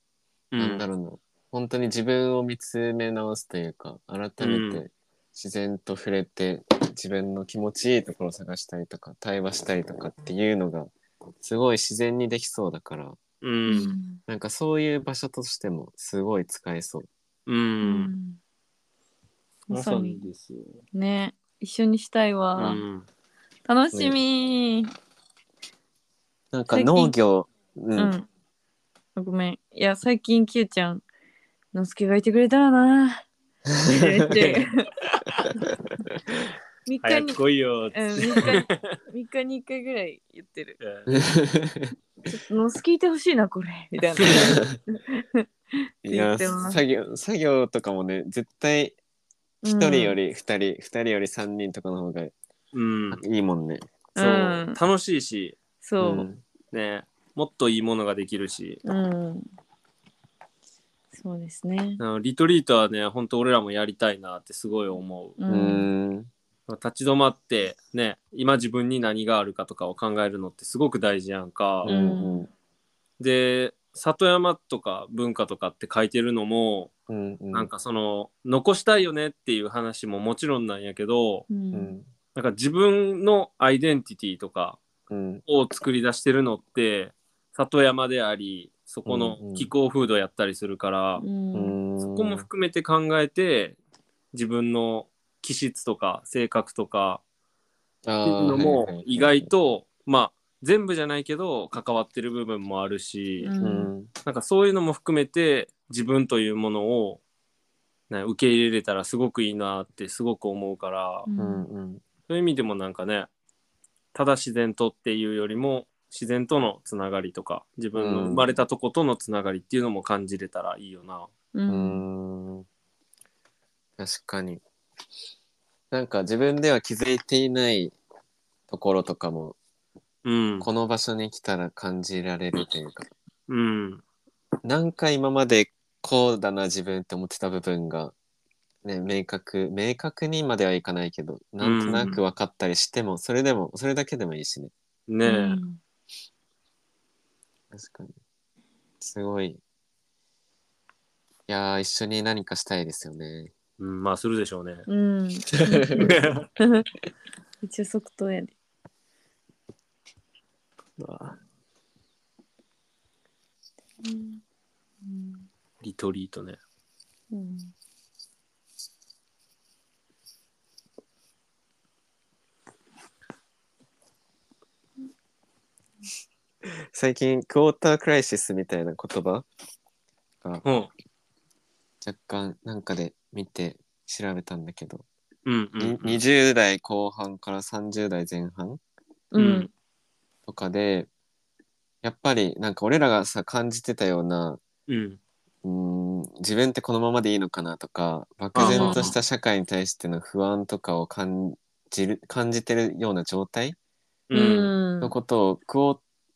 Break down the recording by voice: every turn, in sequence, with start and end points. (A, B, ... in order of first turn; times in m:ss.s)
0:00.5-0:00.8 A
0:00.6-0:13.2 B
0:04.4-0:04.8 A
0:13.4-0:14.0 A
0:13.7-0:14.2 C
0:14.3-0:17.1 B
0:17.4-0:18.1 A
0:17.8-0:18.4 C
0:19.7-0:20.2 C
0:19.7-0:20.8 A
0:20.9-0:22.8 C
0:22.6-0:23.1 A
0:23.6-0:24.9 C
0:26.5-0:28.1 B
0:26.7-0:27.1 C
0:28.0-0:28.2 C
0:29.2-0:31.0 C
0:31.7-0:33.2 C
0:33.7-0:34.3 B
0:33.8-0:34.7 C
0:34.4-0:34.6 A
0:36.8-0:37.4 C
0:37.0-0:39.0 A
0:37.9-0:40.8 C
0:40.8-0:41.1 A
0:41.1-0:41.9 B
0:42.3-0:45.4 C
0:46.0-0:49.0 B
0:46.0-0:46.8 C
0:49.6-0:50.2 C
0:49.6-0:52.3 B
0:52.7-0:53.2 A
0:53.1-0:53.8 B
0:54.2-0:54.8 C
0:54.2-0:55.6 A
0:55.8-0:56.3 C
0:56.0-0:56.4 B
0:56.7-0:58.8 A
0:58.8-0:59.4 C
1:01.1-1:02.0 C
1:02.0-1:05.4 A
1:05.4-1:05.9 C
1:05.5-1:06.3 B
1:06.7-1:11.9 A
1:11.8-1:12.5 B
1:11.9-1:12.5 C
1:13.2-1:16.9 A
1:17.1-1:17.7 B
1:17.5-1:21.5 A
1:21.5-1:21.9 C
1:21.7-1:22.1 B
1:22.3-1:24.8 A
1:25.1-1:25.4 B
1:25.5-1:31.2 A
1:29.0-1:29.7 B
1:31.2-1:31.8 C
1:31.5-1:32.5 B
1:32.0-1:33.8 A
1:34.3-1:37.2 A
1:38.0-1:39.5 B
1:38.2-1:43.5 A
1:43.4-1:43.9 C
1:43.6-1:44.1 B
1:44.2-1:47.2 A
1:48.1-1:51.3 A
1:51.2-1:51.6 C
1:51.4-1:52.0 B
1:52.3-1:53.3 A
1:54.1-2:01.3 A
1:57.9-1:58.6 B
2:01.5-2:02.0 C
2:01.7-2:02.6 B
2:04.0-2:04.6 B
2:05.9-2:08.0 B
2:08.7-2:09.6 B
2:10.2-2:10.7 A
2:10.6-2:13.1 B
2:13.5-2:14.0 A
2:14.6-2:18.1 B
2:18.8-2:24.7 B
2:21.6-2:22.2 A
2:25.1-2:25.6 A
2:25.2-2:25.8 C
2:27.7-2:28.1 B
2:29.0-2:29.6 B
2:31.5-2:33.5 B
2:33.8-2:34.8 A
2:34.9-2:36.8 C
2:35.6-2:36.0 B
2:36.0-2:36.5 A
2:37.6-2:38.5 C
2:41.0-2:41.4 B
2:44.0-2:44.4 C
2:45.0-2:45.4 C
2:45.8-2:46.6 A
2:47.3-2:47.7 C
2:56.6-2:59.4 B
3:00.6-3:00.9 A
3:02.0-3:05.0 B
3:05.4-3:06.2 A
3:05.8-3:08.8 B
3:09.3-3:09.7 C
3:09.4-3:09.7 A
3:10.4-3:11.1 B
3:12.0-3:14.6 B
3:14.9-3:15.2 A
3:15.6-3:23.8 B
3:18.5-3:19.1 A
3:18.6-3:19.1 C
3:24.3-3:24.7 A
3:24.3-3:25.1 C
3:25.0-3:26.0 B